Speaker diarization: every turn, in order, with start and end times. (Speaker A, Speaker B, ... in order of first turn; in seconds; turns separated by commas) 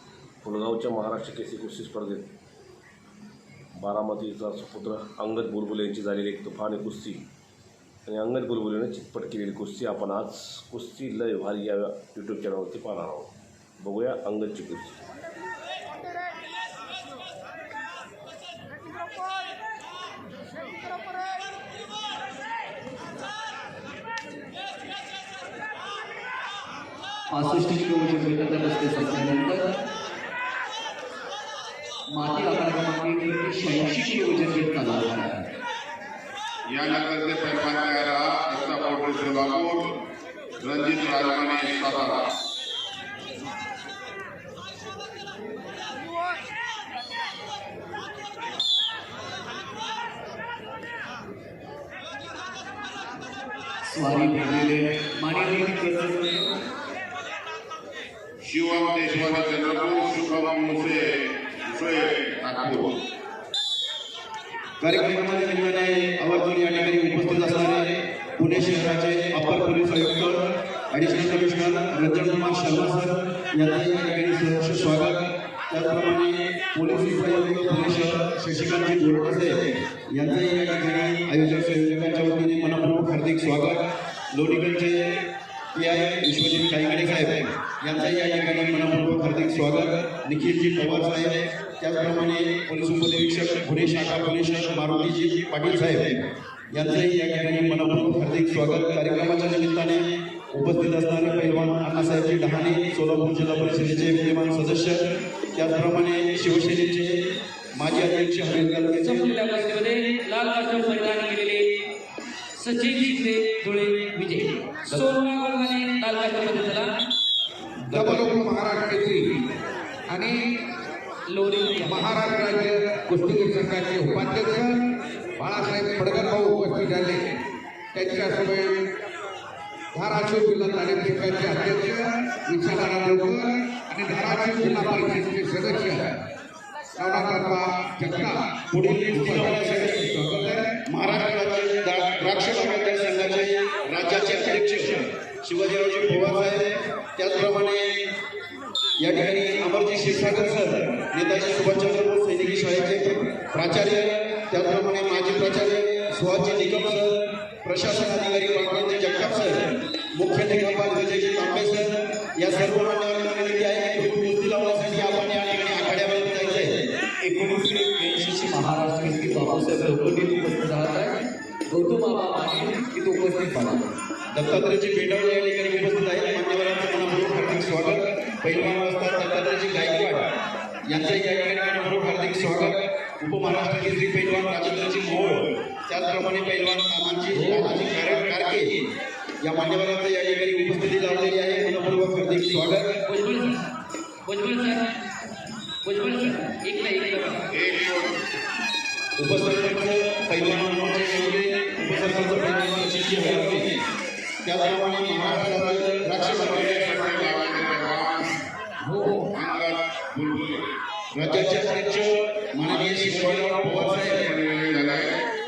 Speaker A: 0.4-2.2, Speaker A: 3.8-7.2, Speaker A: 8.1-15.0, Speaker A: 27.5-27.9, Speaker B: 27.7-29.2, Speaker C: 32.1-32.8, Speaker A: 32.9-33.2, Speaker C: 34.7-35.4, Speaker D: 36.7-40.0, Speaker D: 40.6-42.3, Speaker C: 53.8-56.6, Speaker D: 58.4-63.0, Speaker E: 64.8-109.3, Speaker B: 109.0-111.8, Speaker B: 112.5-117.0, Speaker F: 117.9-119.5, Speaker F: 120.1-120.4, Speaker B: 121.3-122.0, Speaker F: 121.8-127.2, Speaker F: 127.9-128.8, Speaker F: 129.9-136.2, Speaker F: 137.0-138.5, Speaker E: 138.7-140.1, Speaker F: 139.2-140.7, Speaker E: 140.7-148.1, Speaker E: 149.0-166.8, Speaker C: 167.2-173.9, Speaker E: 174.3-180.3, Speaker E: 180.9-188.8, Speaker B: 187.4-187.7, Speaker E: 189.4-193.0, Speaker B: 193.0-193.7, Speaker B: 194.2-194.9, Speaker B: 195.8-197.5, Speaker D: 197.5-198.2, Speaker E: 199.2-203.8, Speaker E: 204.4-207.2, Speaker D: 206.3-208.4, Speaker B: 208.9-209.1, Speaker D: 209.2-210.7, Speaker E: 211.1-214.3, Speaker D: 214.1-215.3